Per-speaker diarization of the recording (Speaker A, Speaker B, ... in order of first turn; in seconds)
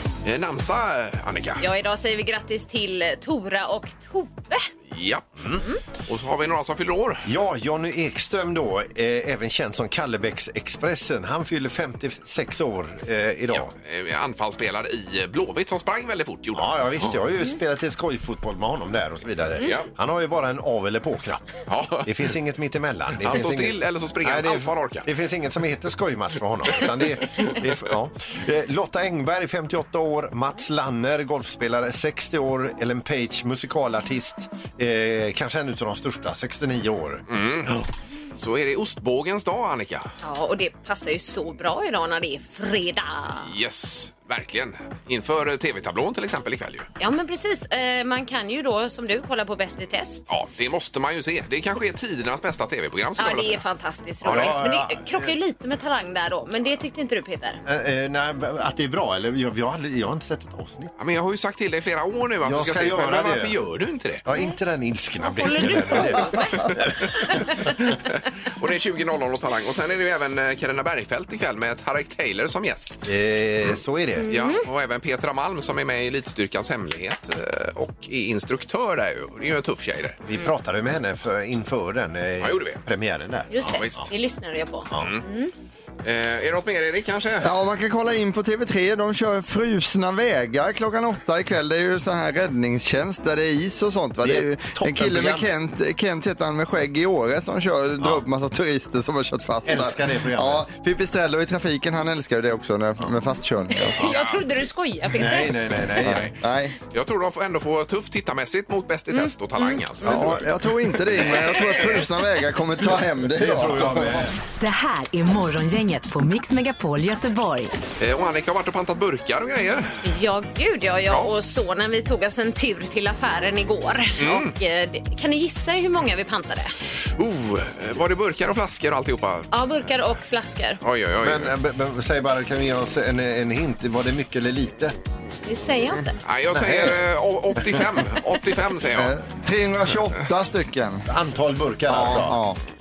Speaker A: 0.2-1.6, 4.9-7.3, 13.5-17.1, 19.6-19.9, 21.7-22.2, 23.2-25.1, 37.3-40.1, 43.4-46.9, 50.3-53.6, 54.2-54.6, 61.0-64.2, 66.6-67.1, 68.6-73.0, 74.3-80.2, 82.4-82.8, 83.5-84.1, 84.9-85.2, 86.0-87.5, 104.0-104.7, 106.0-106.3, 106.9-110.5, 113.8-114.1, 118.0-120.0, 124.2-124.5, 127.2-129.6, 130.8-131.5, 136.2-139.1
Speaker B: 1.6-4.7, 40.2-43.5, 47.0-50.3, 53.2-57.6, 65.2-66.6, 74.2-74.6, 83.5-85.5, 103.7-105.5, 109.1-109.8, 120.0-126.7, 129.5-130.8, 135.4-136.2
Speaker C: 7.2-13.7, 16.5-37.2, 54.2-55.3, 57.6-60.9, 62.4-63.6, 64.2-66.9, 73.0-74.3, 80.2-84.0, 94.2-95.5, 99.6-100.6, 105.1-106.3, 113.3-114.4, 131.2-134.9, 136.5-137.0, 141.1-142.4
Speaker D: 87.4-104.1, 106.0-106.7, 110.0-114.0, 138.9-141.1, 141.9-142.6
Speaker E: 114.6-117.7